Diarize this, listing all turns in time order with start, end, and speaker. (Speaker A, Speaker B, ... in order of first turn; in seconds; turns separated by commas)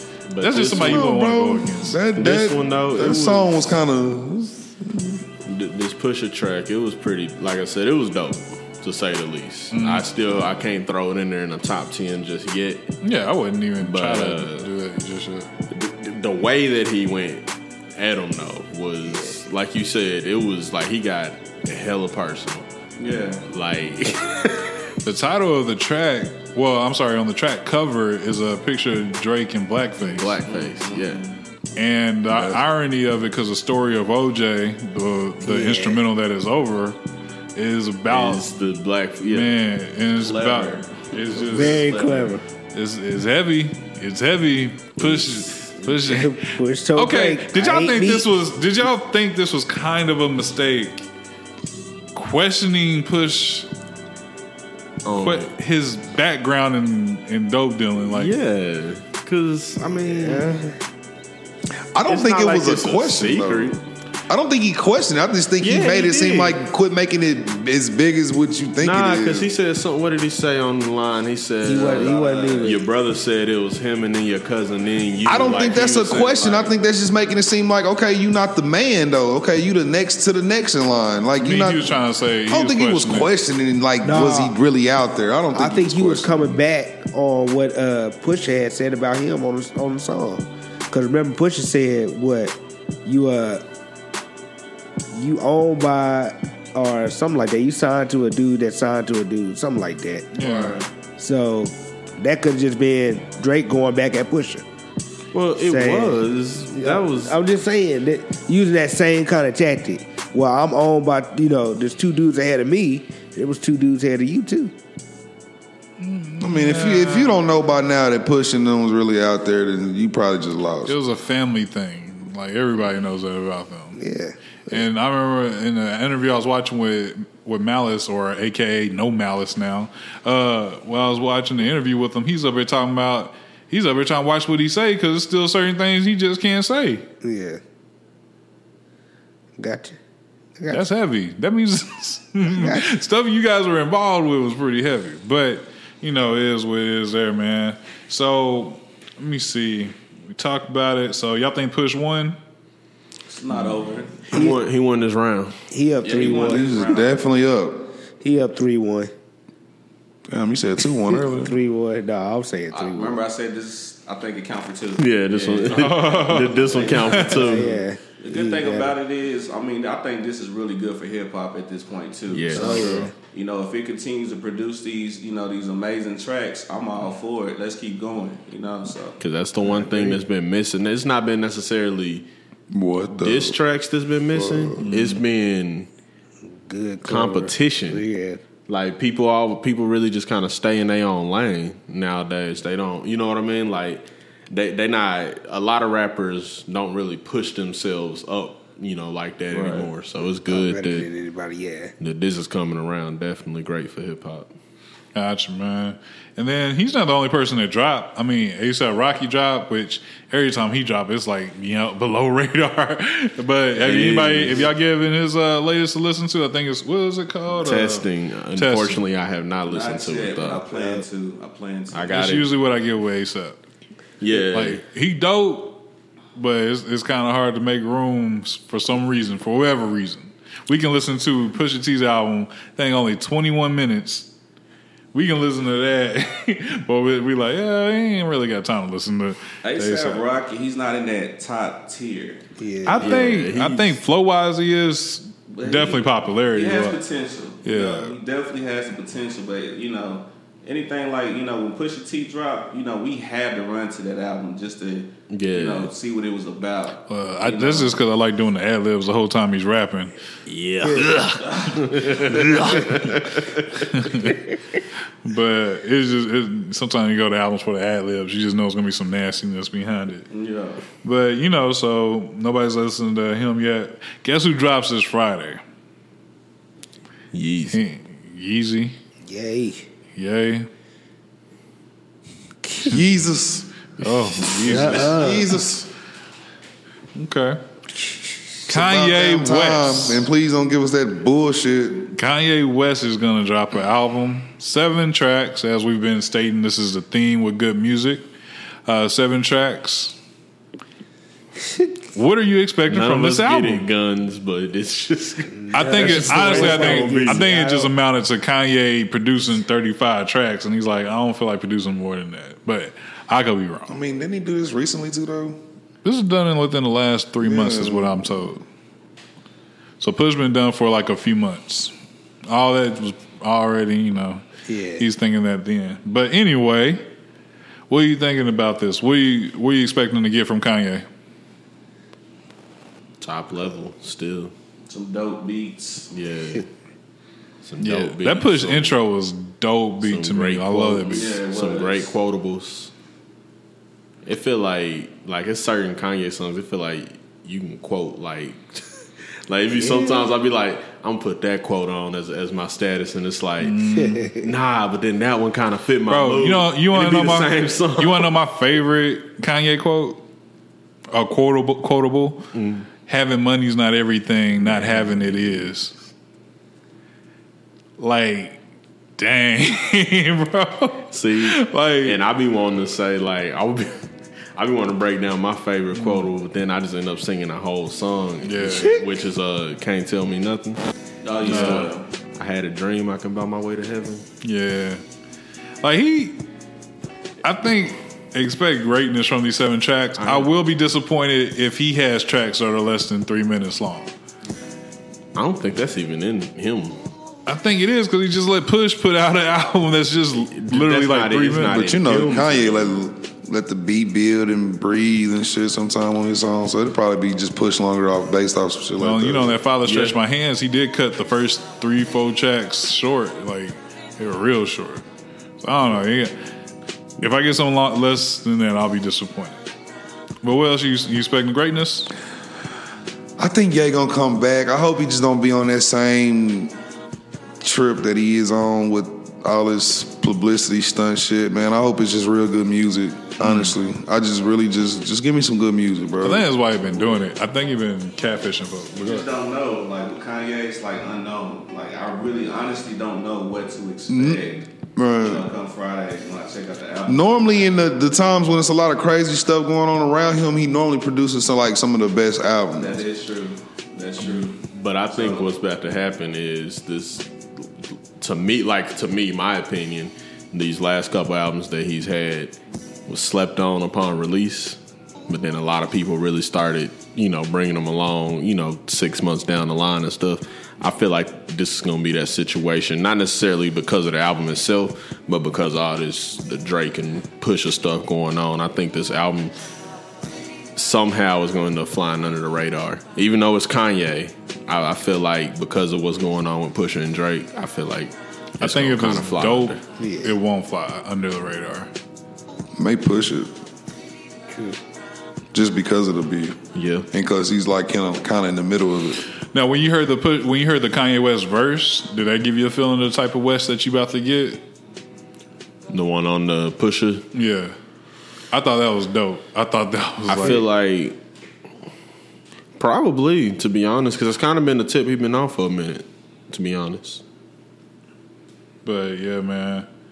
Speaker A: 0.3-1.1, Speaker B: 0.4-2.0, Speaker C: 0.7-5.2, Speaker A: 2.1-3.6, Speaker A: 5.5-12.9, Speaker B: 9.7-10.1, Speaker B: 13.0-15.5, Speaker A: 13.8-14.7, Speaker A: 15.7-22.7, Speaker D: 23.0-23.4, Speaker A: 23.5-24.8, Speaker B: 25.0-30.4, Speaker A: 30.0-31.2, Speaker D: 30.4-31.3, Speaker B: 31.8-37.0, Speaker C: 32.3-32.6, Speaker E: 35.4-36.0, Speaker B: 37.5-38.5, Speaker A: 38.1-39.6, Speaker B: 39.3-42.1, Speaker D: 40.2-42.2, Speaker E: 41.5-42.4, Speaker B: 42.7-51.0, Speaker A: 45.0-46.0, Speaker E: 46.0-48.3, Speaker B: 52.1-53.7, Speaker A: 55.0-55.5, Speaker B: 55.1-58.3, Speaker A: 58.0-60.5, Speaker E: 59.8-60.8, Speaker C: 61.9-63.8, Speaker A: 62.1-63.8, Speaker C: 64.3-69.5, Speaker A: 65.6-66.6, Speaker A: 68.8-76.3, Speaker E: 71.6-72.8, Speaker D: 71.7-72.8, Speaker C: 75.2-86.5, Speaker D: 75.3-76.7, Speaker B: 81.4-83.3, Speaker E: 84.0-84.6, Speaker E: 85.5-93.6, Speaker E: 95.1-100.3, Speaker B: 100.3-100.8, Speaker D: 100.4-100.9, Speaker E: 101.2-104.6, Speaker A: 105.3-107.3, Speaker E: 105.6-114.7, Speaker B: 116.0-117.4, Speaker C: 116.4-121.0, Speaker B: 120.9-124.0, Speaker E: 124.0-124.8, Speaker B: 124.7-137.1, Speaker E: 137.2-137.6, Speaker E: 139.6-140.0, Speaker E: 140.6-140.9, Speaker B: 140.7-152.4, Speaker E: 142.4-142.9, Speaker D: 153.3-154.3, Speaker A: 154.3-155.6, Speaker E: 154.3-154.6, Speaker E: 155.7-156.8, Speaker D: 156.0-157.2, Speaker C: 156.4-157.9, Speaker E: 158.2-159.1, Speaker C: 160.3-161.5, Speaker E: 161.1-163.2, Speaker D: 162.7-179.2, Speaker A: 165.0-167.8, Speaker B: 165.7-167.4, Speaker E: 167.2-168.9, Speaker A: 172.3-173.1, Speaker E: 172.5-173.1, Speaker A: 179.2-182.3, Speaker C: 182.7-183.6, Speaker A: 183.2-185.9, Speaker C: 184.3-184.9, Speaker B: 184.8-185.2, Speaker E: 186.4-188.4, Speaker A: 187.0-188.0, Speaker A: 188.7-201.1, Speaker D: 199.5-199.9, Speaker E: 200.5-201.9, Speaker A: 202.0-204.5, Speaker B: 205.1-219.0, Speaker A: 213.7-214.7, Speaker A: 217.6-220.6, Speaker D: 219.7-222.3, Speaker E: 220.7-221.0, Speaker A: 221.9-222.4, Speaker B: 222.1-223.6, Speaker A: 224.2-224.8, Speaker B: 224.4-225.8, Speaker B: 226.3-234.3, Speaker B: 235.1-240.2, Speaker D: 239.6-242.4, Speaker E: 242.6-243.3, Speaker B: 242.8-247.0, Speaker A: 243.0-244.0, Speaker D: 245.5-258.0, Speaker B: 247.6-248.1, Speaker A: 255.3-255.9, Speaker B: 257.1-260.1, Speaker A: 260.5-263.8, Speaker B: 263.8-264.4, Speaker B: 265.2-270.3, Speaker D: 270.3-270.8, Speaker B: 271.0-275.6, Speaker A: 277.3-277.8, Speaker B: 277.7-278.9, Speaker E: 279.2-279.9, Speaker B: 280.1-280.7, Speaker E: 282.6-282.9, Speaker C: 282.8-283.7, Speaker B: 284.0-285.2, Speaker A: 284.4-285.1, Speaker E: 284.6-285.5, Speaker C: 284.7-285.9, Speaker B: 287.1-287.6, Speaker B: 288.7-290.3, Speaker C: 288.7-292.1, Speaker B: 292.1-298.2, Speaker B: 298.9-300.2, Speaker B: 302.1-303.9, Speaker A: 302.9-307.5, Speaker E: 305.6-307.9, Speaker B: 305.7-314.0, Speaker C: 313.9-315.6, Speaker B: 316.0-318.6, Speaker C: 317.4-318.5, Speaker B: 320.0-321.9, Speaker B: 322.5-324.4, Speaker E: 324.7-325.0, Speaker B: 325.0-327.0, Speaker B: 327.9-331.1, Speaker A: 333.2-334.5, Speaker D: 334.9-336.1, Speaker A: 336.1-336.7, Speaker A: 337.6-338.9, Speaker B: 337.8-341.3, Speaker A: 340.0-342.9, Speaker D: 341.1-342.1, Speaker A: 344.2-353.8, Speaker E: 349.9-350.2, Speaker B: 353.6-354.3, Speaker E: 353.9-354.5, Speaker A: 354.4-358.3, Speaker B: 356.1-360.2, Speaker B: 361.1-362.5, Speaker A: 362.5-362.9, Speaker B: 363.0-365.9, Speaker A: 364.6-365.6, Speaker B: 368.0-368.6, Speaker B: 369.2-372.2, Speaker A: 371.1-380.8, Speaker B: 375.9-376.3, Speaker B: 378.4-379.0, Speaker D: 381.2-382.1, Speaker A: 381.4-384.2, Speaker B: 381.4-381.9, Speaker B: 384.4-385.0, Speaker B: 385.8-386.4, Speaker B: 387.4-394.1, Speaker A: 390.2-390.5, Speaker A: 395.3-397.0, Speaker B: 397.4-401.8, Speaker A: 400.5-402.9, Speaker C: 401.7-409.6, Speaker B: 409.0-415.0, Speaker A: 409.9-410.1, Speaker B: 415.6-416.3, Speaker B: 417.2-419.6, Speaker B: 420.4-422.1, Speaker C: 423.4-426.7, Speaker C: 427.6-436.5, Speaker B: 433.4-433.7, Speaker B: 436.2-439.3, Speaker D: 439.0-444.7, Speaker C: 444.1-444.4, Speaker C: 444.9-445.5, Speaker D: 445.2-447.3, Speaker C: 447.1-453.0, Speaker D: 452.8-455.6, Speaker A: 454.7-479.5, Speaker A: 480.8-489.8, Speaker B: 488.6-491.9, Speaker E: 490.0-490.3, Speaker C: 492.8-493.5, Speaker C: 495.5-496.6, Speaker A: 496.7-497.1, Speaker C: 497.1-499.2, Speaker B: 499.5-504.6, Speaker A: 505.9-507.2, Speaker B: 507.3-507.7, Speaker B: 508.5-510.6, Speaker A: 510.3-511.2, Speaker A: 512.8-517.2, Speaker B: 518.8-519.9